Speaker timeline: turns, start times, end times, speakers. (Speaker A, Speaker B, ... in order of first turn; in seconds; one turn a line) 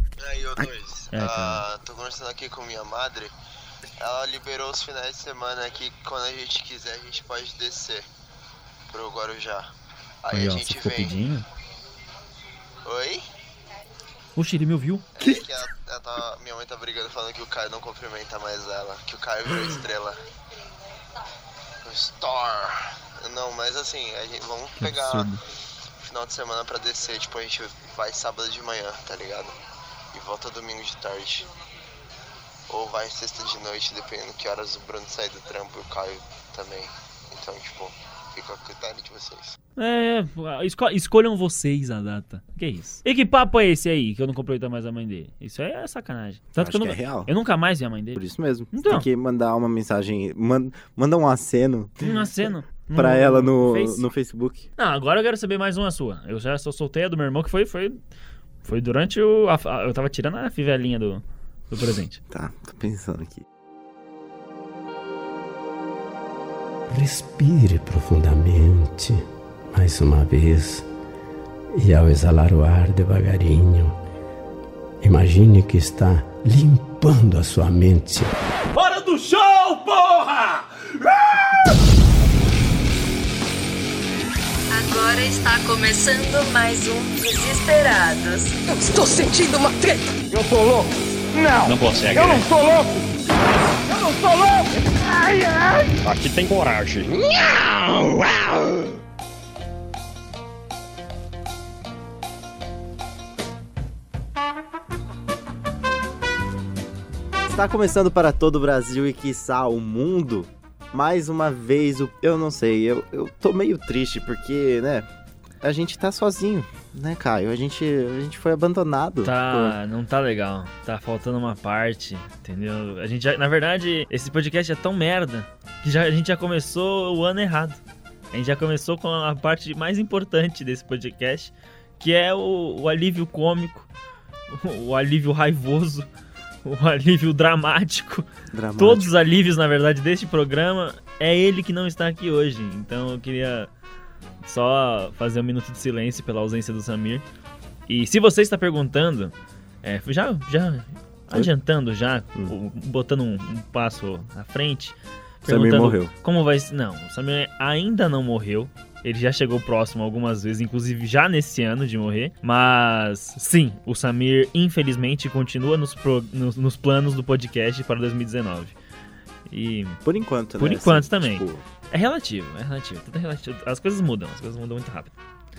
Speaker A: 0.2-3.3
Speaker B: 1.1-1.6
Speaker A: 4.0-8.1
Speaker A: 8.9-9.7
Speaker A: 10.2-11.2
Speaker B: 10.3-11.5
Speaker A: 12.8-13.3
Speaker B: 14.4-15.2
Speaker A: 15.2-20.2
Speaker A: 21.8-25.4
Speaker B: 24.8-25.4
Speaker A: 26.0-29.5
Speaker A: 30.1-31.5
Speaker A: 32.7-39.6
Speaker B: 39.8-48.2
Speaker C: 46.6-47.3
Speaker C: 48.1-52.3
Speaker B: 48.7-49.1
Speaker B: 52.0-54.0
Speaker C: 53.0-54.7
Speaker B: 54.8-58.0
Speaker B: 58.6-62.2
Speaker C: 62.3-63.4
Speaker D: 66.9-70.9
Speaker D: 71.7-74.0
Speaker D: 75.0-78.3
Speaker E: 78.7-81.7
Speaker F: 84.7-88.6
Speaker E: 88.8-96.0
Speaker G: 91.7-92.5
Speaker G: 96.0-98.6
Speaker C: 107.5-115.1
Speaker C: 115.6-119.8
Speaker B: 119.2-127.8
Speaker B: 128.3-133.9
Speaker B: 134.5-136.1
Speaker B: 136.6-143.7
Speaker C: 138.5-139.2
Speaker B: 144.4-147.2
Speaker B: 147.9-168.8
Speaker C: 155.5-156.1
Speaker B: 169.5-170.0
Speaker C: 170.0-171.7
Speaker B: 170.6-175.1